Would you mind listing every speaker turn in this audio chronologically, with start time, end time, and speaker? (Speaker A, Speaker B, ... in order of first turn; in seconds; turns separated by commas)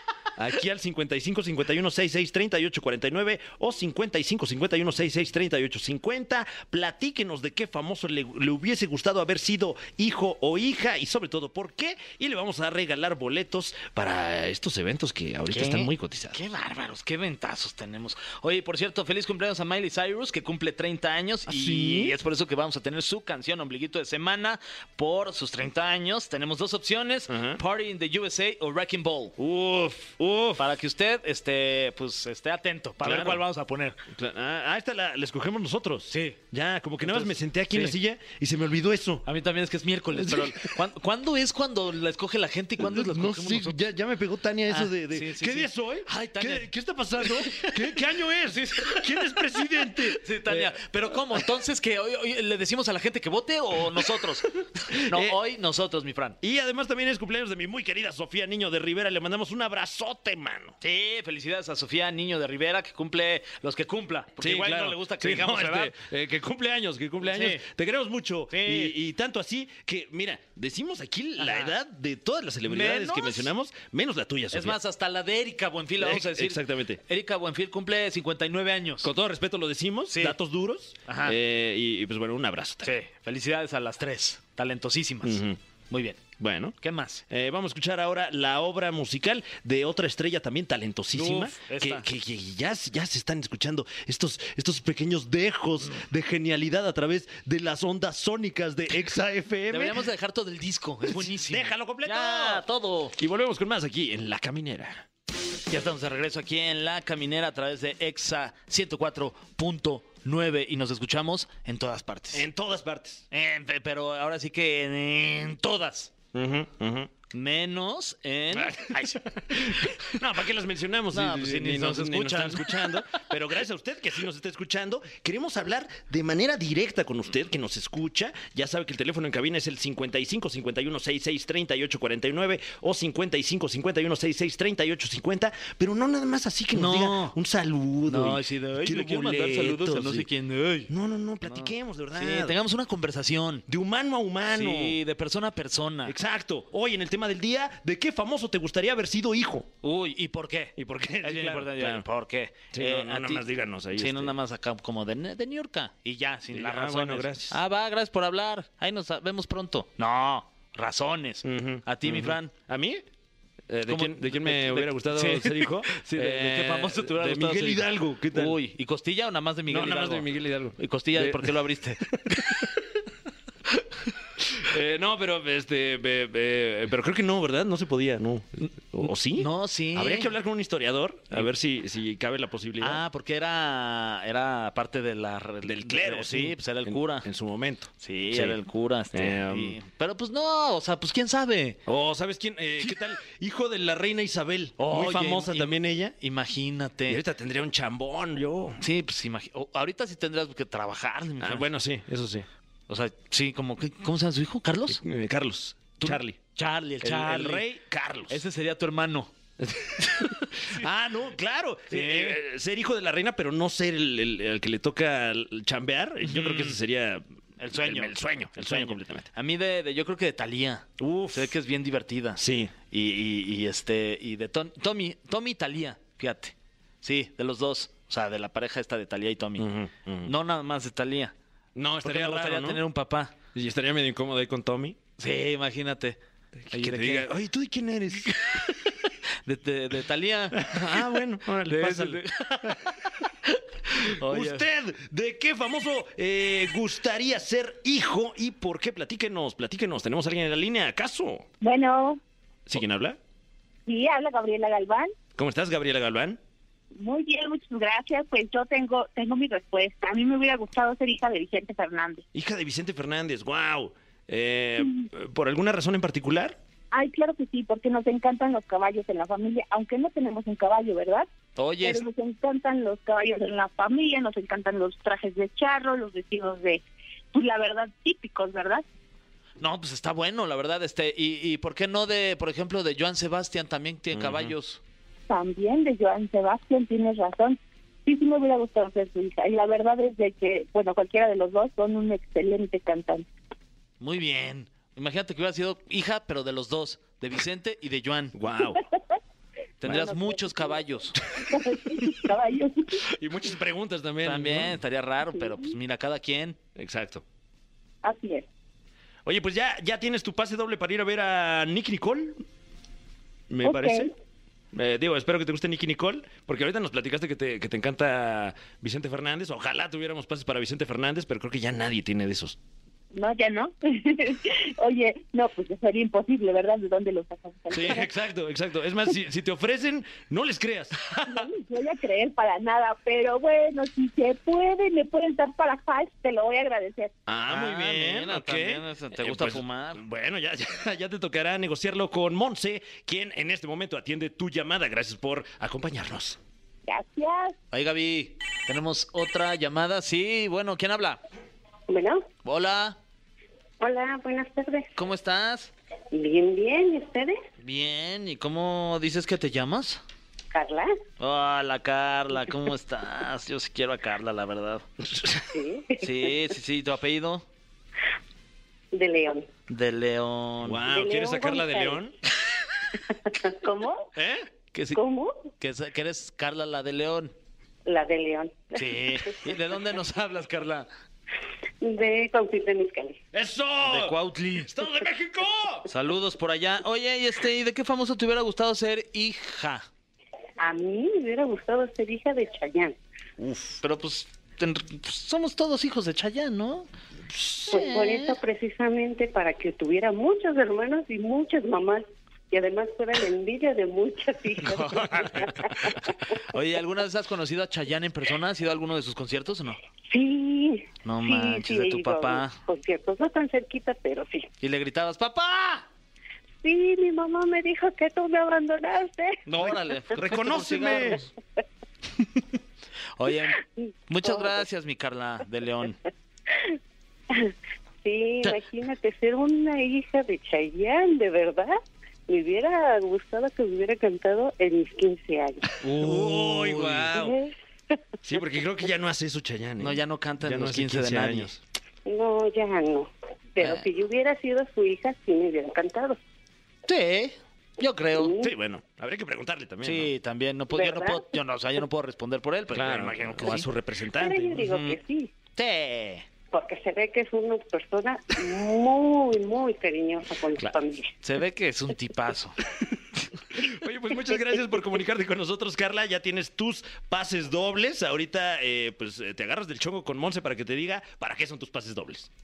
Speaker A: 0.4-16.4, Speaker B: 15.5-29.3, Speaker A: 21.5-22.1, Speaker A: 27.3-27.6, Speaker A: 29.4-30.6, Speaker B: 30.6-34.0, Speaker A: 33.0-33.4, Speaker A: 34.1-39.3, Speaker B: 36.1-36.4, Speaker B: 37.0-38.0, Speaker B: 39.3-43.8, Speaker A: 40.1-40.8, Speaker A: 42.8-51.4, Speaker B: 44.7-46.7, Speaker B: 47.2-48.0, Speaker B: 48.8-56.4, Speaker A: 54.9-55.4, Speaker A: 56.4-60.8, Speaker B: 60.8-66.0, Speaker A: 64.4-74.8, Speaker B: 67.2-67.6, Speaker B: 68.5-69.0, Speaker B: 71.4-71.7, Speaker B: 72.7-73.5, Speaker B: 74.5-79.1, Speaker A: 76.0-77.0, Speaker A: 79.0-82.9, Speaker B: 80.1-80.4, Speaker B: 81.1-81.3, Speaker B: 82.8-86.2, Speaker A: 85.2-85.6, Speaker A: 86.4-86.8, Speaker B: 86.8-87.2, Speaker A: 87.3-100.0, Speaker B: 91.1-92.0, Speaker B: 99.7-103.2, Speaker A: 101.1-105.1, Speaker B: 105.7-112.5, Speaker A: 112.3-113.2, Speaker B: 113.3-116.1, Speaker A: 116.3-117.1, Speaker B: 117.3-120.1, Speaker A: 118.5-140.3, Speaker B: 121.1-123.1, Speaker B: 136.7-137.4, Speaker B: 138.1-140.9, Speaker A: 140.9-142.6, Speaker B: 141.4-143.7, Speaker A: 143.7-145.0, Speaker B: 144.5-146.2, Speaker A: 146.1-149.7, Speaker B: 149.8-162.5, Speaker A: 150.8-152.1, Speaker A: 152.7-154.3, Speaker A: 156.5-157.6, Speaker A: 161.4-163.0, Speaker A: 163.7-168.6, Speaker B: 163.9-172.7, Speaker A: 169.7-172.8, Speaker A: 174.6-183.0, Speaker B: 179.4-180.3, Speaker B: 182.8-187.3, Speaker A: 185.6-188.6, Speaker B: 188.0-191.8, Speaker A: 189.1-189.8, Speaker A: 191.9-196.2, Speaker B: 194.8-197.2, Speaker A: 197.1-198.8, Speaker B: 198.8-201.7, Speaker A: 201.4-202.5, Speaker B: 202.9-205.0, Speaker A: 204.9-206.4, Speaker B: 206.0-207.7, Speaker A: 207.0-208.4, Speaker B: 208.3-209.3, Speaker A: 209.6-219.3, Speaker B: 210.2-210.8, Speaker B: 211.9-212.4, Speaker B: 216.2-216.8, Speaker B: 217.6-229.7, Speaker A: 221.0-221.5, Speaker A: 222.4-222.7, Speaker A: 229.6-230.3, Speaker B: 230.2-231.3, Speaker A: 231.8-232.8, Speaker B: 232.0-233.3, Speaker A: 233.5-235.0, Speaker B: 235.2-236.2, Speaker A: 236.6-238.7, Speaker B: 236.7-237.3, Speaker B: 238.3-238.6, Speaker B: 239.4-241.1, Speaker A: 240.6-242.8, Speaker B: 241.7-244.7, Speaker A: 244.0-251.5, Speaker C: 251.6-252.2, Speaker A: 252.7-253.2, Speaker C: 253.9-255.1, Speaker A: 255.3-256.4, Speaker C: 256.9-262.2, Speaker A: 262.3-266.6, Speaker C: 266.9-271.3, Speaker B: 271.6-272.0, Speaker C: 271.8-276.8, Speaker C: 277.3-278.9, Speaker B: 279.6-284.8, Speaker A: 284.1-284.5, Speaker C: 285.3-293.3, Speaker B: 294.0-298.4, Speaker A: 298.3-298.8, Speaker B: 299.8-301.2, Speaker C: 299.9-303.1, Speaker A: 303.1-304.8, Speaker B: 304.2-306.6, Speaker A: 306.8-307.2, Speaker C: 308.0-308.5, Speaker A: 309.2-312.4, Speaker A: 313.5-314.1, Speaker C: 313.6-314.1, Speaker A: 314.7-322.6, Speaker C: 323.1-328.1, Speaker A: 327.7-331.0, Speaker C: 331.2-337.1, Speaker A: 337.3-346.4, Speaker B: 337.5-340.0, Speaker C: 346.9-347.6, Speaker B: 347.7-351.2, Speaker D: 351.9-352.3, Speaker B: 352.4-353.0, Speaker D: 353.8-354.9, Speaker B: 354.9-355.7, Speaker D: 356.1-357.4, Speaker B: 357.6-360.0, Speaker D: 360.5-360.9, Speaker B: 361.2-364.9, Speaker A: 365.0-365.4, Speaker D: 365.5-366.3, Speaker B: 366.0-367.5, Speaker D: 368.9-369.5, Speaker B: 369.7-370.9, Speaker A: 370.6-372.1, Speaker D: 370.9-372.0, Speaker D: 373.3-374.1, Speaker A: 374.1-374.5, Speaker B: 374.7-375.0, Speaker D: 374.9-375.4, Speaker B: 375.6-377.3, Speaker D: 377.9-379.4, Speaker B: 378.8-380.9, Speaker D: 381.8-383.2, Speaker A: 383.3-385.9, Speaker B: 383.8-384.7, Speaker B: 385.9-389.9, Speaker D: 390.6-393.0, Speaker A: 393.4-393.8, Speaker B: 393.8-396.9, Speaker A: 397.3-397.8, Speaker B: 397.7-398.4, Speaker D: 397.7-406.3, Speaker B: 404.6-409.8, Speaker D: 410.1-414.5, Speaker B: 411.0-412.6, Speaker B: 414.6-415.9, Speaker D: 416.6-419.4, Speaker B: 419.5-421.3, Speaker A: 420.1-421.2, Speaker B: 422.2-422.4, Speaker B: 423.2-426.0, Speaker D: 423.8-424.6, Speaker D: 427.3-431.8, Speaker D: 432.3-435.7, Speaker B: 435.8-437.2, Speaker A: 436.0-437.4, Speaker D: 437.1-437.5, Speaker A: 438.2-441.6, Speaker B: 439.8-441.6, Speaker D: 442.1-446.2, Speaker B: 446.9-448.3, Speaker D: 448.1-448.5, Speaker A: 448.4-450.1, Speaker B: 449.8-453.7, Speaker D: 450.7-451.2, Speaker A: 452.7-454.6, Speaker D: 454.1-455.3, Speaker B: 454.6-455.0, Speaker B: 455.6-456.2, Speaker D: 456.5-461.1, Speaker B: 461.2-462.6, Speaker A: 463.5-472.3